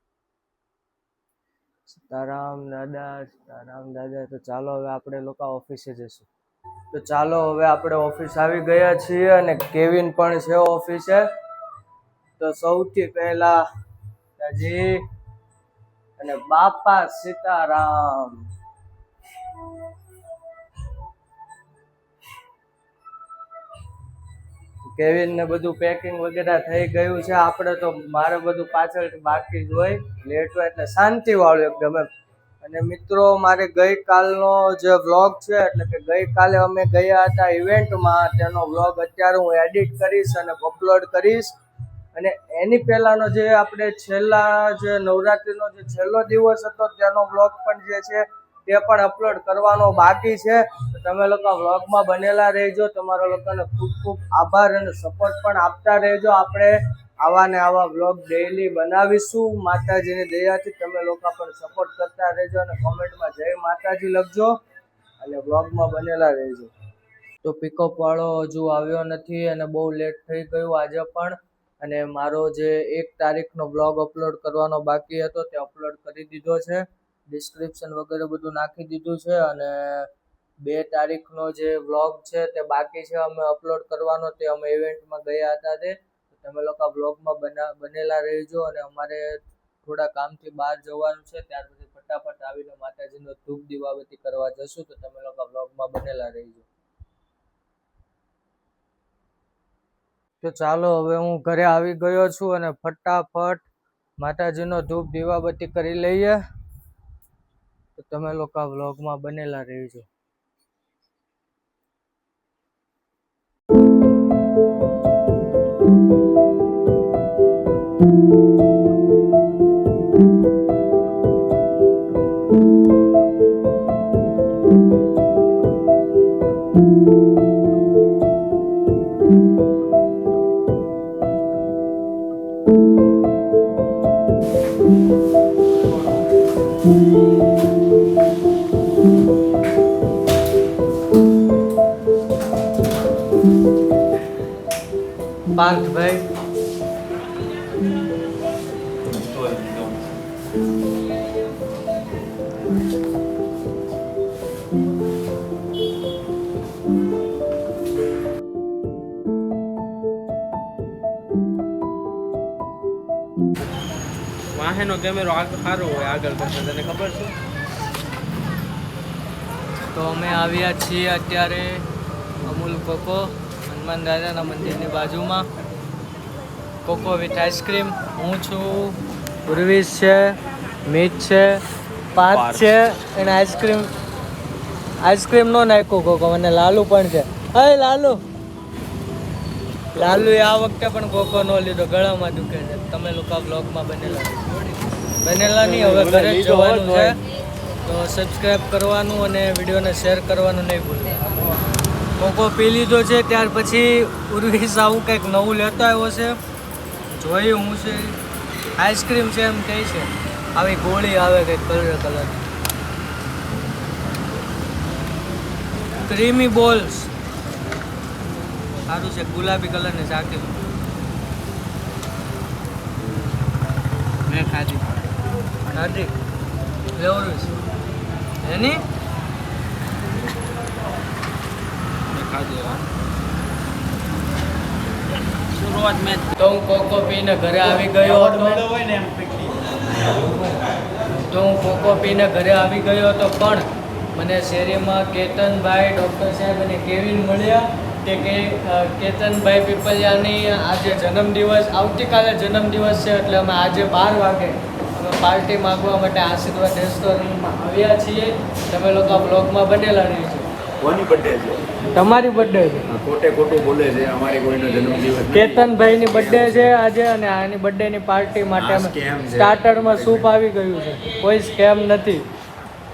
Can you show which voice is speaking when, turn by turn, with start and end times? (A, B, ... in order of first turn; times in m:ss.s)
0:01.9-0:06.3 A
0:06.9-0:11.2 A
0:12.4-0:13.6 A
0:14.4-0:15.0 A
0:16.2-0:18.4 A
0:24.9-0:32.1 A
0:32.6-0:41.5 A
0:42.1-1:04.5 A
1:05.2-1:06.7 A
1:07.4-1:20.1 A
1:20.6-1:36.7 A
1:40.4-1:43.6 A
1:44.2-1:46.4 A
1:48.0-1:50.1 A
2:25.6-2:26.2 A
2:29.2-2:30.0 B
2:44.5-2:47.3 C
2:49.9-2:51.8 A
2:52.4-2:55.4 A
2:56.8-3:01.6 A
3:02.2-3:03.9 A
3:02.3-3:02.7 B
3:05.0-3:08.2 A
3:09.9-3:14.4 A
3:15.2-3:17.2 A
3:15.6-3:17.2 B
3:17.8-3:21.2 A
3:22.2-3:26.4 A
3:27.1-3:28.2 A
3:28.8-3:32.4 A
3:36.0-3:37.1 A
3:38.9-3:40.5 A
3:44.3-3:44.8 A
3:45.7-3:46.1 A
3:47.0-3:47.5 A
3:48.4-3:48.8 A
3:52.1-3:52.8 C
3:55.5-3:56.2 C
3:56.4-3:58.7 A
4:01.2-4:03.6 A
4:04.2-4:20.5 A
4:20.8-4:21.7 B
4:21.9-4:22.9 A
4:22.9-4:26.7 B
4:25.3-4:32.3 A
4:28.6-4:30.2 B